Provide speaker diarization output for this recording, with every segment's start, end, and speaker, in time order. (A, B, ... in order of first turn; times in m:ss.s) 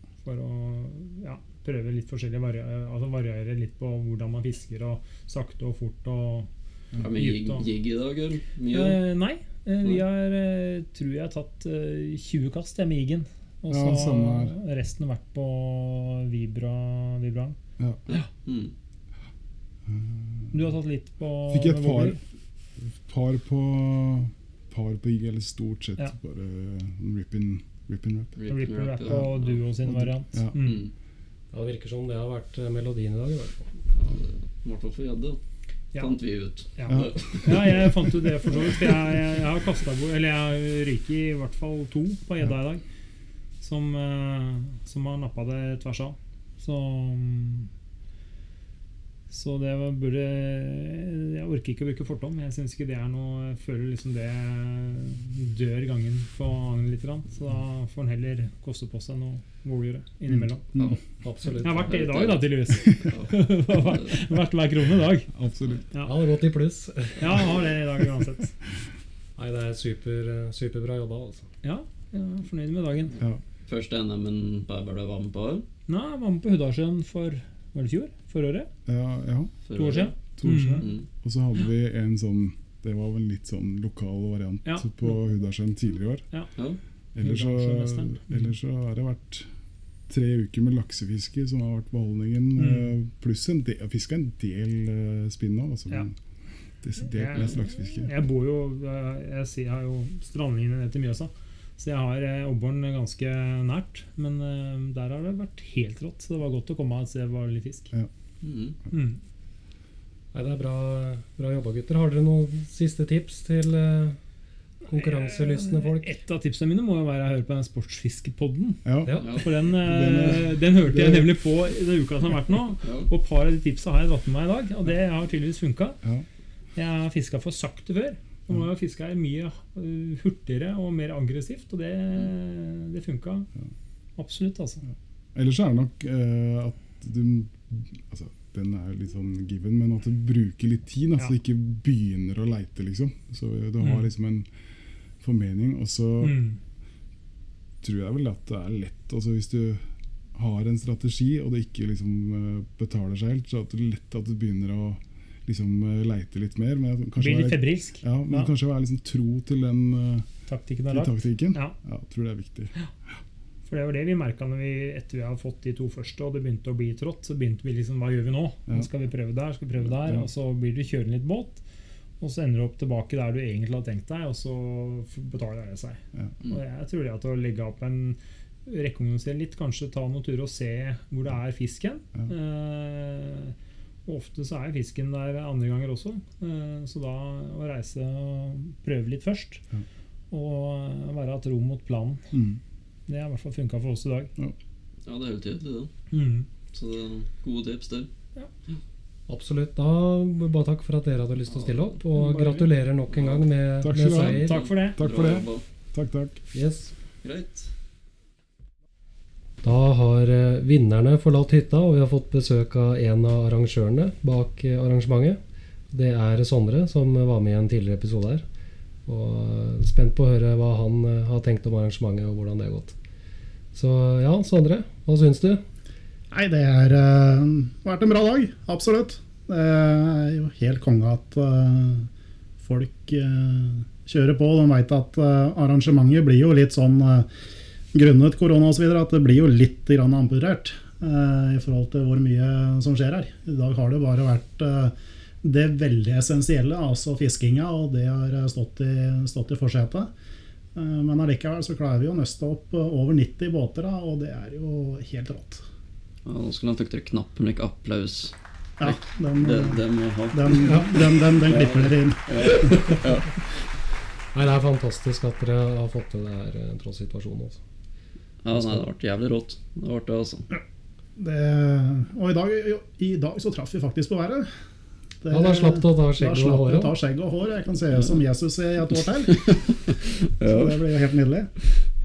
0:00.2-0:06.5 A
0:07.0-0:09.0 B
0:07.1-0:07.7 A
0:08.7-0:17.6 A
0:13.7-0:14.5 C
0:18.1-0:18.7 B
0:19.9-0:20.5 C
0:20.5-0:22.2 A
0:21.5-0:22.2 C
0:22.8-0:28.4 C
0:28.4-0:29.6 B
0:28.5-0:30.9 A
0:29.8-0:30.6 C
0:30.6-0:30.9 B
0:31.5-0:33.7 D
0:33.9-0:35.4 B
0:35.9-0:37.7 B
0:36.8-0:42.8 A
0:36.9-0:38.6 C
0:43.6-0:47.7 A
0:49.3-1:00.7 A
1:01.2-1:02.0 D
1:01.6-1:05.3 A
1:01.8-1:04.2 B
1:05.3-1:05.8 C
1:06.0-1:07.5 D
1:07.2-1:08.6 A
1:09.4-1:11.5 D
1:11.6-1:13.2 A
1:13.7-1:15.6 B
1:15.9-1:18.7 A
1:18.9-1:19.6 C
1:19.7-1:20.1 B
1:19.7-1:20.9 A
1:20.4-1:26.2 C
1:27.2-1:29.5 C
1:27.2-1:28.4 A
1:30.1-1:36.1 C
1:32.6-1:32.9 A
1:36.8-1:38.1 C
1:37.0-1:47.9 A
1:48.4-1:48.8 B
1:48.9-1:49.2 A
1:50.3-1:54.2 D
1:54.9-1:56.1 D
1:54.9-2:06.0 A
1:58.8-2:01.3 C
1:59.2-1:59.4 B
2:02.8-2:03.1 B
2:06.7-2:13.5 A
2:14.2-2:14.8 A
2:15.3-2:24.5 C
2:25.2-2:26.4 C
2:26.2-2:26.6 A
2:27.8-2:40.3 C
2:37.2-2:38.5 A
2:40.5-2:41.8 A
2:40.9-2:42.7 C
2:43.6-2:51.6 A
2:50.0-2:50.3 C
2:52.2-3:03.5 A
2:56.1-2:56.4 C
3:04.0-3:09.6 A
3:10.3-3:12.3 A
3:12.3-3:12.6 C
3:13.1-3:14.3 A
3:15.0-3:15.9 B
3:16.1-3:16.5 A
3:16.7-3:18.1 B
3:19.3-3:24.6 D
3:22.2-3:22.7 A
3:23.1-3:23.4 B
3:23.8-3:26.4 C
3:24.3-3:25.0 A
3:24.4-3:25.6 B
3:26.5-3:26.9 D
3:27.2-3:27.7 B
3:29.6-3:35.4 D
3:35.9-3:38.4 D
3:39.0-3:43.0 D
3:43.7-3:45.6 D
3:46.3-3:52.1 E
3:52.6-3:57.3 E
3:57.9-4:10.1 E
4:10.7-4:15.6 E
4:16.2-4:23.4 B
4:18.8-4:23.0 E
4:24.3-4:27.6 D
4:28.4-4:30.5 B
4:31.2-4:34.5 E
4:35.2-4:39.5 E
4:35.3-4:36.9 D
4:39.3-4:40.9 B
4:40.4-4:41.5 E